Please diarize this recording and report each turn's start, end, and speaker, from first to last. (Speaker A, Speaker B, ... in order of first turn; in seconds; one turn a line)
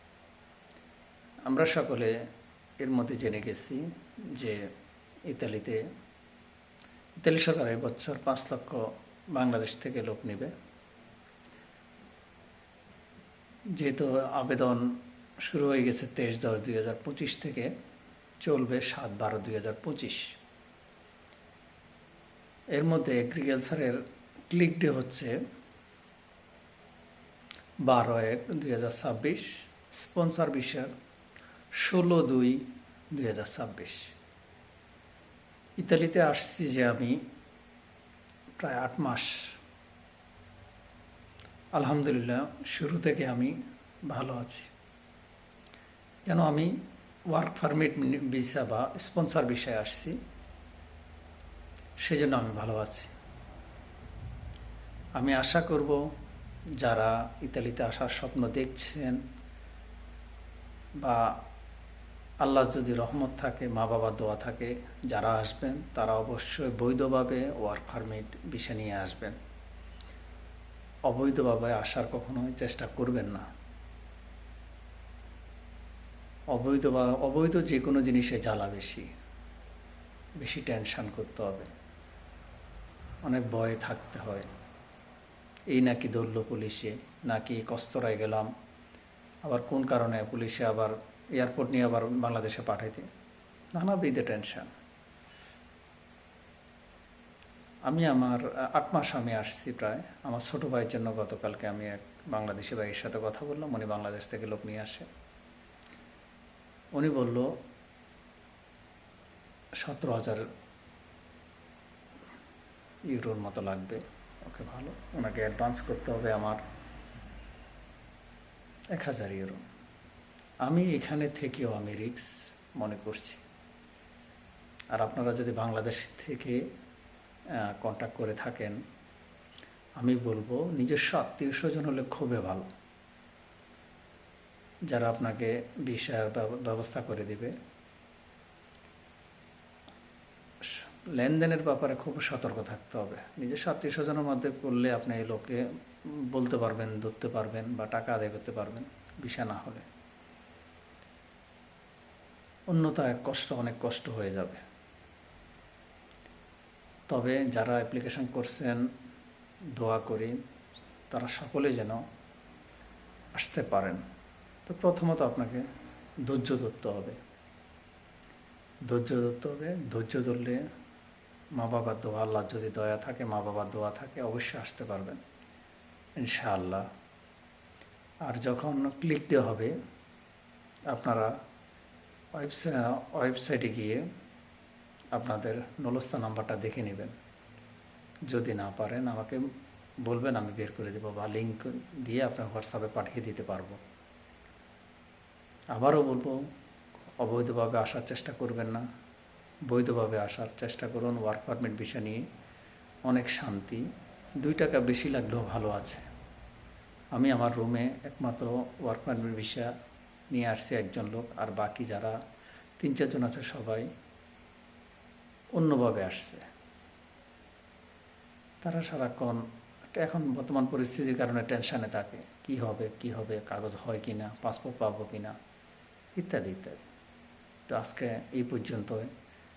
Speaker A: 1.5-2.1
Speaker A: 2.8-4.7
Speaker A: 5.3-5.9
Speaker A: 7.2-10.5
Speaker A: 13.7-17.7
Speaker A: 18.4-20.3
Speaker A: 22.7-24.0
Speaker A: 24.5-25.4
Speaker A: 27.9-30.9
Speaker A: 31.8-34.1
Speaker A: 35.8-37.2
Speaker A: 38.6-39.6
Speaker A: 41.8-43.6
Speaker A: 44.1-44.7
Speaker A: 46.3-46.8
Speaker A: 47.3-50.2
Speaker A: 52.0-53.1
Speaker A: 55.2-56.0
Speaker A: 56.8-59.2
Speaker A: 61.0-61.3
Speaker A: 62.4-69.4
Speaker A: 71.1-73.5
Speaker A: 76.5-79.1
Speaker A: 80.4-81.7
Speaker A: 83.2-84.5
Speaker A: 85.7-88.5
Speaker A: 89.5-93.1
Speaker A: 93.8-94.7
Speaker A: 97.9-105.1
Speaker A: 107.0-107.5
Speaker A: 109.8-110.5
Speaker A: 113.1-116.6
Speaker A: 118.9-119.6
Speaker A: 120.7-123.4
Speaker A: 125.0-126.7
Speaker A: 127.6-128.8
Speaker A: 130.0-132.7
Speaker A: 134.9-137.5
Speaker A: 140.6-149.8
Speaker A: 152.7-154.6
Speaker A: 157.1-158.9
Speaker A: 159.7-160.4
Speaker A: 161.1-162.0
Speaker A: 163.3-164.0
Speaker A: 164.7-165.7
Speaker A: 166.2-167.2
Speaker A: 168.8-170.6
Speaker A: 171.6-175.2
Speaker A: 176.2-176.9
Speaker A: 178.2-179.8
Speaker A: 180.9-181.3
Speaker A: 182.3-184.0
Speaker A: 185.1-187.1
Speaker A: 188.3-189.4
Speaker A: 190.0-193.8
Speaker A: 195.8-196.4
Speaker A: 197.2-198.8
Speaker A: 199.7-202.2
Speaker A: 203.1-203.8
Speaker A: 204.4-206.1
Speaker A: 207.1-209.7
Speaker A: 210.3-212.2
Speaker A: 212.8-213.9
Speaker A: 215.6-216.4
Speaker A: 218.6-225.3
Speaker A: 226.2-226.8
Speaker A: 227.7-229.1